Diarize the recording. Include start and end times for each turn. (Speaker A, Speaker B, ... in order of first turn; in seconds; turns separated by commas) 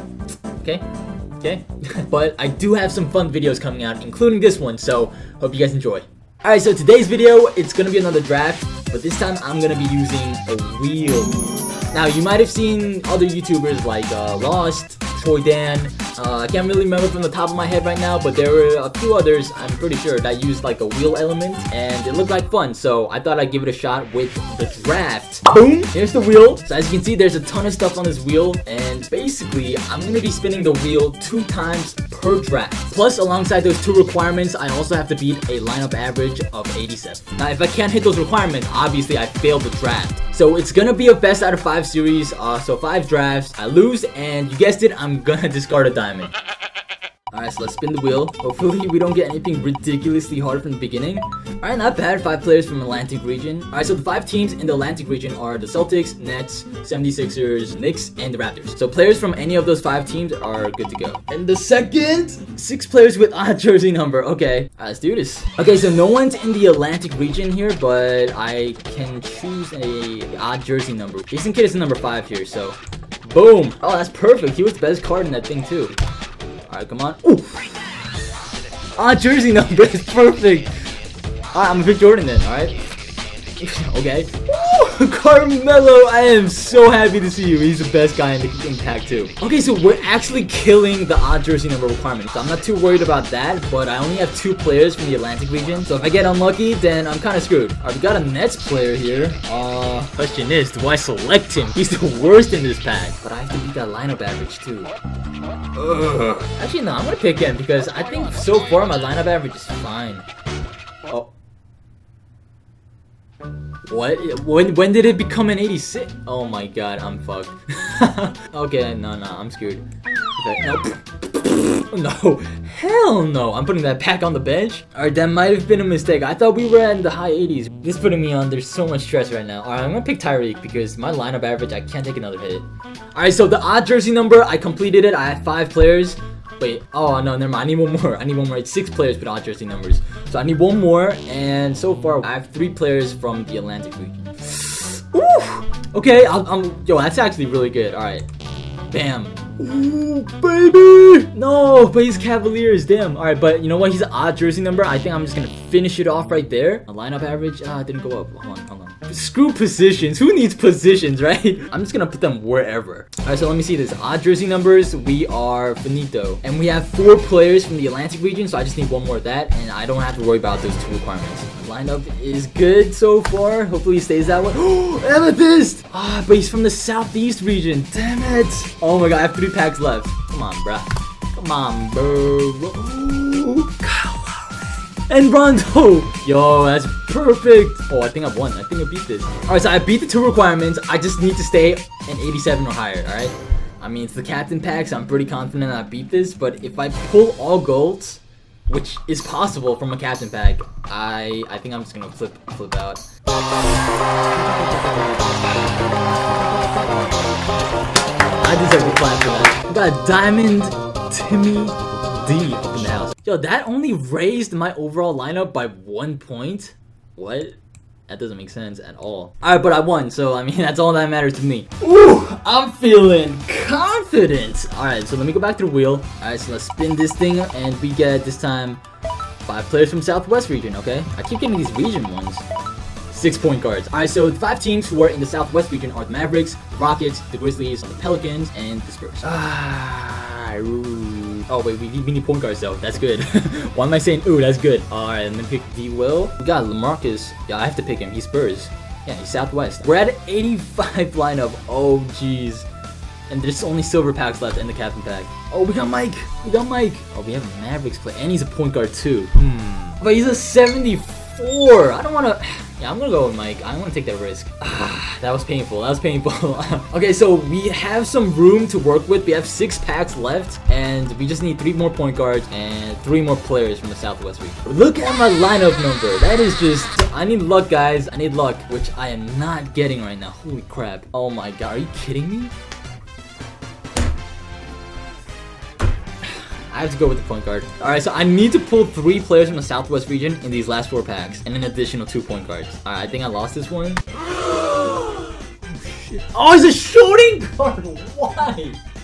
Speaker A: 0.6-0.8, Speaker A: 1.4-46.3, Speaker A: 47.3-76.0, Speaker A: 76.7-78.0, Speaker A: 79.0-80.7, Speaker A: 81.5-82.7, Speaker A: 83.6-104.9, Speaker A: 105.7-110.2, Speaker A: 113.9-119.8, Speaker A: 120.3-148.2, Speaker A: 148.9-203.0, Speaker A: 204.3-206.1, Speaker A: 206.7-207.0, Speaker A: 208.4-217.6, Speaker A: 218.1-228.8, Speaker A: 229.4-232.4, Speaker A: 233.1-252.7, Speaker A: 253.3-282.5, Speaker A: 286.2-298.8